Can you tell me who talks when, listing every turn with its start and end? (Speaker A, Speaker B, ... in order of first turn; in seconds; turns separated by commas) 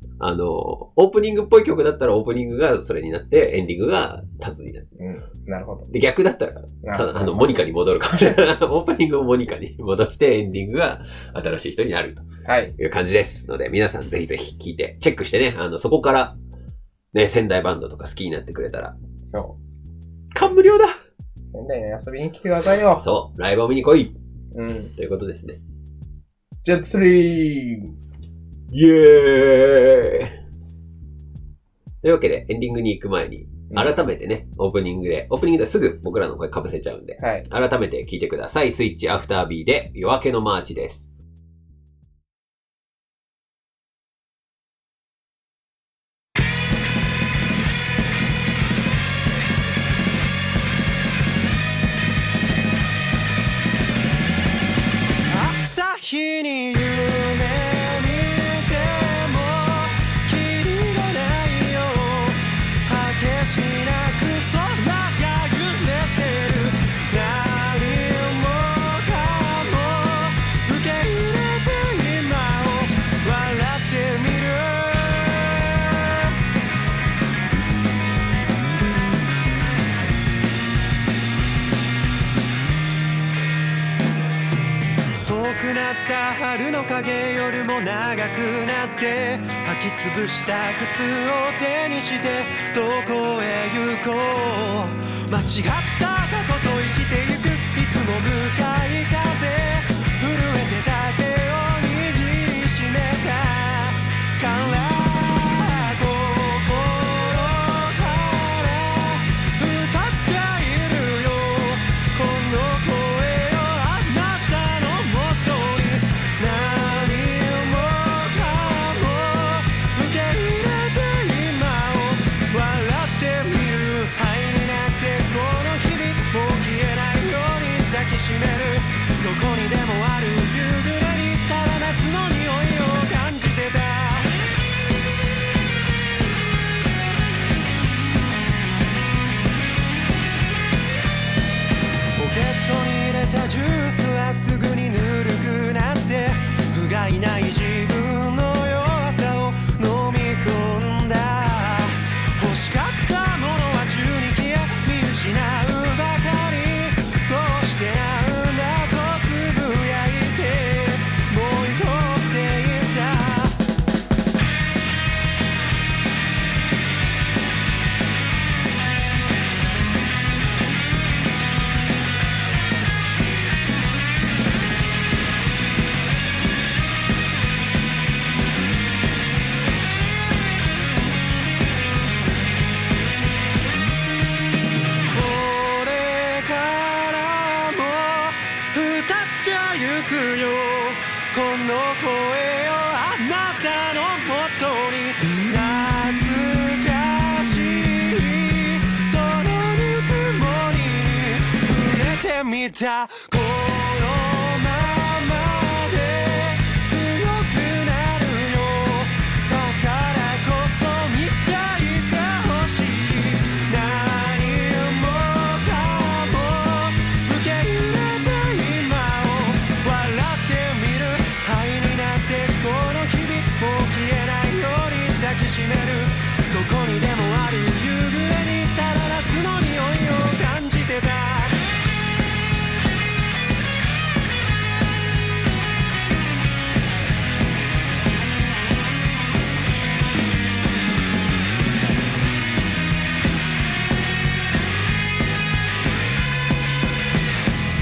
Speaker A: 0.2-4.9, Speaker B: 5.0-5.9, Speaker A: 5.9-16.4, Speaker B: 6.8-7.5, Speaker B: 12.4-12.7, Speaker A: 17.1-18.9, Speaker B: 19.2-19.6, Speaker A: 20.3-20.9, Speaker B: 21.5-23.0, Speaker A: 23.0-24.1, Speaker B: 24.5-24.9, Speaker A: 25.0-25.6, Speaker B: 26.6-27.9, Speaker A: 28.7-30.4, Speaker A: 32.0-41.1, Speaker B: 33.7-33.9, Speaker B: 37.2-37.5, Speaker C: 55.3-76.3, Speaker C: 85.2-134.3, Speaker C: 142.2-163.6, Speaker C: 185.1-231.6